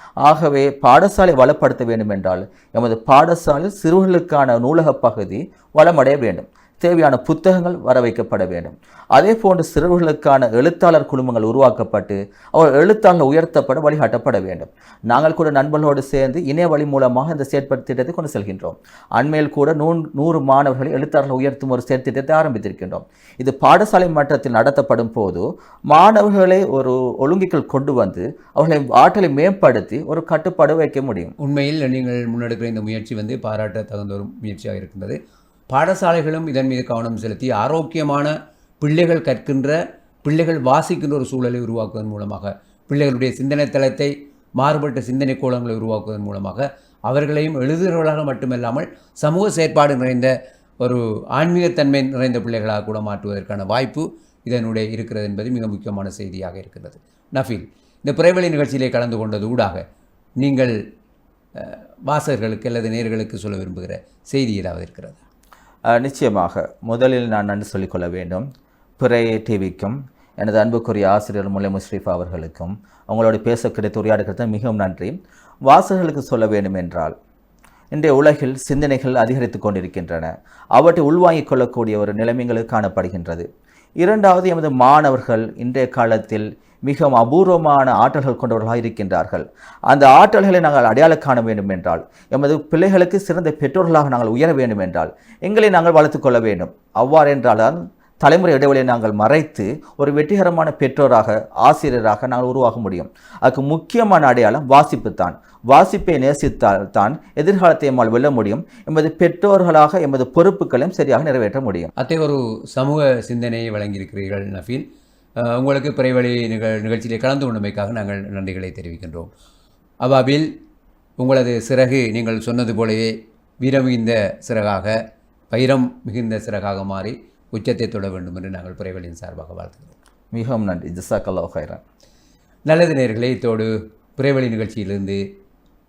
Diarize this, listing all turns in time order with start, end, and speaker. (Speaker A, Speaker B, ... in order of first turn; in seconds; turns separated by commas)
Speaker A: 0.2-31.3, Speaker B: 31.4-35.2, Speaker B: 35.7-50.3, Speaker B: 50.8-59.8, Speaker B: 60.4-60.8, Speaker B: 61.6-65.2, Speaker A: 65.9-68.5, Speaker A: 69.0-77.2, Speaker A: 77.9-83.5, Speaker A: 84.0-111.9, Speaker B: 112.0-114.8, Speaker B: 115.5-119.3, Speaker B: 120.0-120.5, Speaker B: 121.2-125.0, Speaker B: 125.5-129.9, Speaker A: 130.3-131.8, Speaker B: 132.7-135.2